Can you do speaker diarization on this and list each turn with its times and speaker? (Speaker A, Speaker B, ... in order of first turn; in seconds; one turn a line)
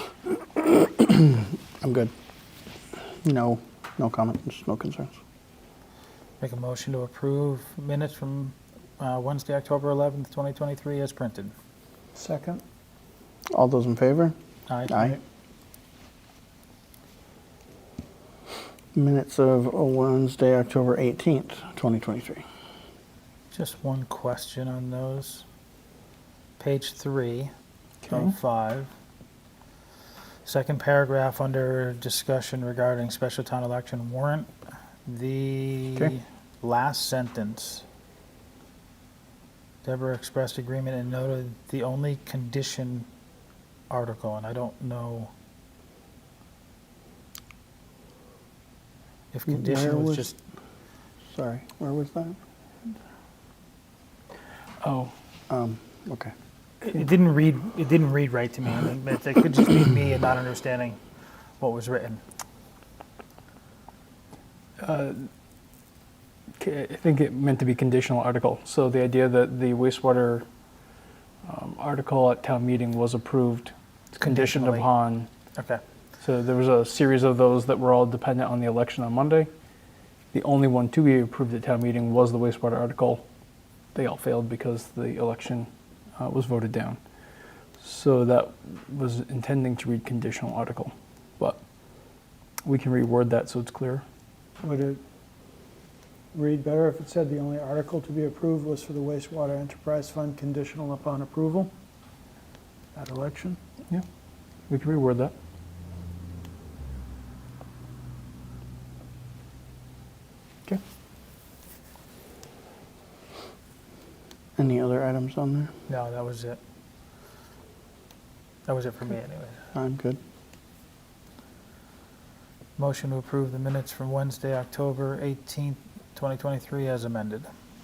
Speaker A: 0.3-2.1
Speaker A: 3.2-5.1
Speaker B: 6.4-11.5
Speaker C: 12.2-12.6
Speaker A: 13.5-14.3
Speaker B: 14.7-15.2
Speaker A: 14.9-15.2
Speaker A: 18.9-22.4
Speaker B: 23.5-25.4
Speaker B: 26.6-27.5
Speaker D: 28.0-28.3
Speaker B: 28.1-28.9
Speaker B: 30.4-34.5
Speaker B: 35.1-37.8
Speaker B: 39.8-43.1
Speaker B: 43.9-45.3
Speaker B: 49.3-50.4
Speaker A: 49.5-50.3
Speaker A: 51.3-52.4
Speaker D: 54.8-55.1
Speaker A: 55.5-56.3
Speaker B: 56.8-61.0
Speaker B: 61.6-62.2
Speaker D: 64.8-65.3
Speaker D: 66.6-70.5
Speaker D: 71.5-75.3
Speaker B: 74.2-74.9
Speaker B: 75.5-75.8
Speaker D: 76.2-79.5
Speaker D: 80.3-83.2
Speaker D: 84.0-87.0
Speaker D: 87.8-91.6
Speaker D: 92.6-94.0
Speaker C: 94.6-95.0
Speaker C: 96.3-101.7
Speaker C: 103.0-103.6
Speaker D: 104.7-105.3
Speaker A: 114.6-115.7
Speaker B: 115.9-116.6
Speaker B: 118.7-119.6
Speaker A: 119.7-120.2
Speaker B: 122.8-127.5